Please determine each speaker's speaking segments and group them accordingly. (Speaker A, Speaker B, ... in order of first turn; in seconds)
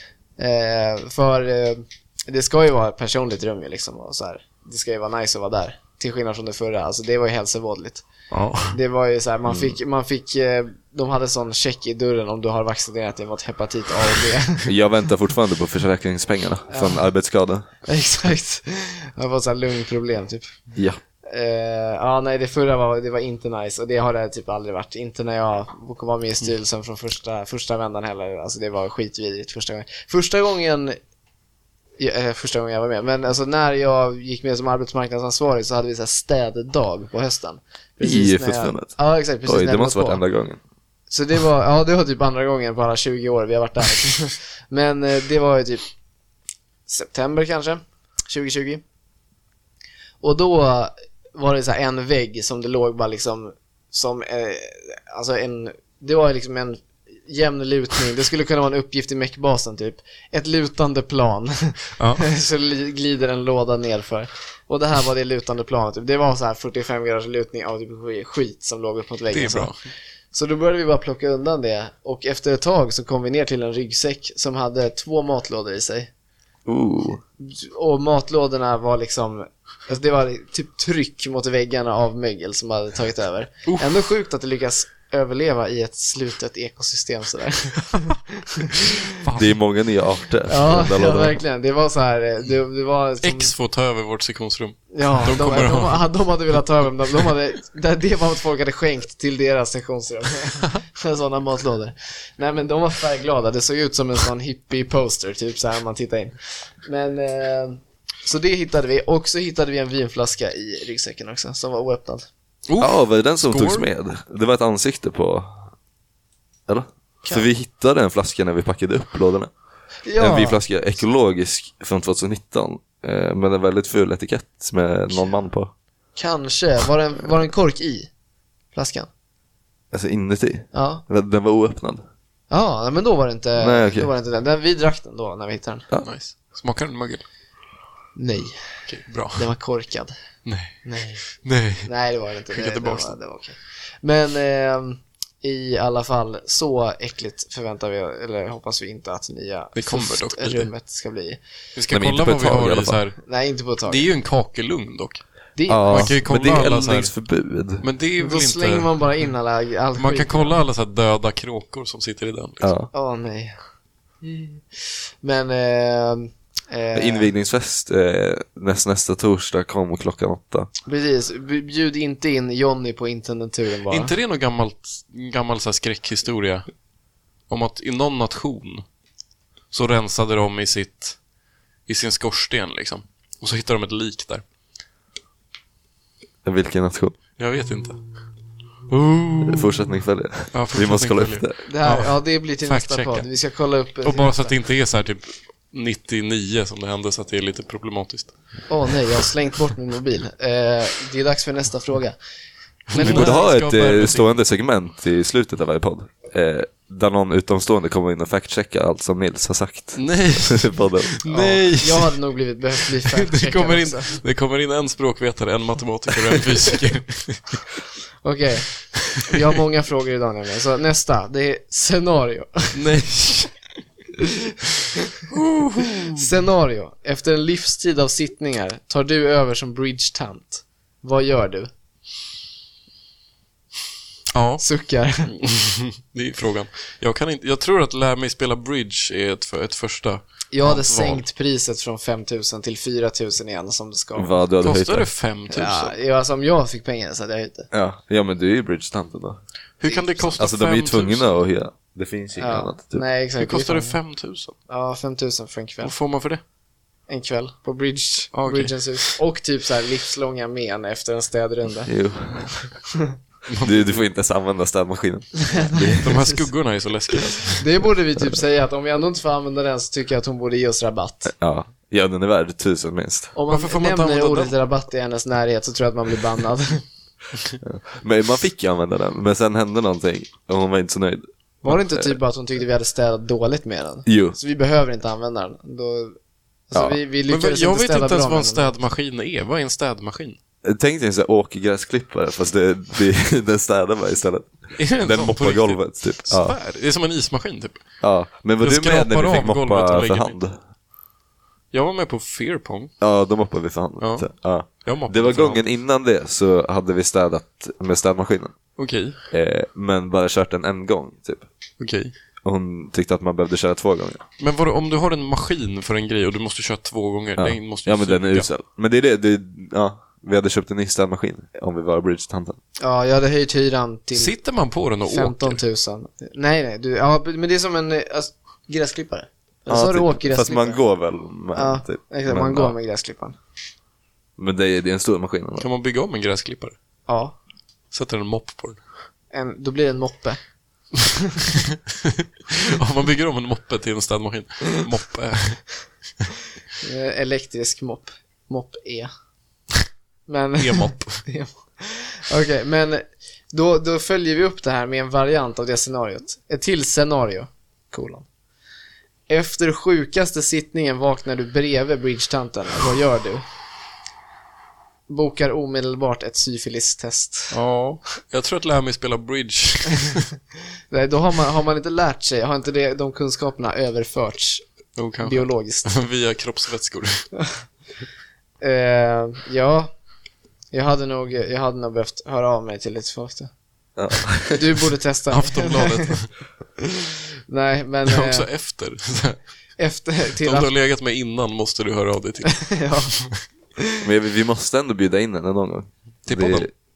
Speaker A: 0.4-8.1, 8.7-14.7, 16.7-17.0, 17.9-20.5, 21.3-31.0, 32.0-40.2, 41.1-45.8, 46.9-48.8, 50.2-69.7, 70.3-76.1, 77.4-89.1, 90.5-93.5, 94.9-112.3, 120.0-120.6, 126.2-128.1, 128.7-129.1, 130.7-131.0, 132.5-135.9, 138.2-138.6, 139.3-140.1, 140.8-141.2, 141.8-151.4, 153.2-154.1, 155.6-156.1, 158.2-160.6, 162.9-163.6, 164.2-167.3, 170.9-174.1, 191.7-194.6, 198.7-202.2, 202.9-203.4, 211.3-214.2, 218.2-222.8, 226.0-231.7, 234.6-235.3, 240.5-244.3, 245.5-247.7, 249.9-250.4, 252.4-254.0, 254.7-255.9, 257.1-261.9, 265.4-266.4, 267.6-271.3, 273.3-276.8, 281.6-286.2, 286.7-288.7, 322.8-324.3, 325.1-330.8, 331.5-333.4, 337.1-337.4, 339.3-340.4, 346.8-349.1, 350.3-358.2, 359.3-363.4, 365.1-367.6, 370.9-374.6, 375.2-375.9, 378.6-379.9, 380.7-383.5, 384.5-386.1, 387.5-388.5, 389.8-390.7, 392.6-393.1
Speaker B: 8.3-8.8, 62.0-62.2, 69.3-69.8, 89.2-89.5, 93.2-96.0, 112.7-113.9, 136.0-137.2, 138.9-139.4, 140.4-141.9, 142.5-143.1, 149.7-150.7, 151.7-153.2, 153.9-155.2, 155.9-157.1, 157.8-158.9, 160.0-162.7, 173.9-176.7, 177.5-178.8, 179.7-181.2, 181.9-184.4, 187.4-188.1, 188.9-189.8, 190.5-193.2, 194.0-198.3, 202.9-204.3, 209.9-212.2, 212.8-217.6, 222.7-223.5, 225.3-226.2, 234.3-234.6, 235.3-241.2, 244.6-245.9, 249.8-251.3, 253.4-254.6, 255.8-256.4, 258.3-259.2, 263.5-264.0, 265.9-267.7, 273.5-274.6, 287.3-290.4, 294.8-297.8, 298.6-300.4, 301.7-302.9, 304.0-305.6, 308.8-309.2, 311.8-312.1, 314.4-318.5, 324.1-325.6, 335.6-336.8, 337.9-338.8, 342.1-345.6, 350.6-351.2, 367.5-370.3, 374.9-377.3, 385.3-386.3, 388.1-389.4, 390.4-393.4, 396.2-396.7
Speaker C: 9.5-9.7, 14.6-17.6, 38.0-40.6, 76.7-77.2, 89.3-91.4, 112.8-115.7, 116.7-119.5, 120.2-125.7, 129.9-132.0, 133.6-134.1, 151.9-153.0, 155.7-157.8, 162.6-162.9, 166.9-170.7, 186.4-187.2, 189.4-191.6, 202.9-211.1, 244.2-245.1, 247.7-249.4, 250.4-253.0, 261.9-262.6, 263.6-266.2, 271.2-273.3, 277.6-282.1, 284.1-284.4, 290.6-296.6, 298.0-300.6, 303.0-308.6, 309.3-311.4, 312.4-314.2, 317.4-322.6, 329.7-332.7, 334.4-335.7, 383.9-384.7, 394.0-396.7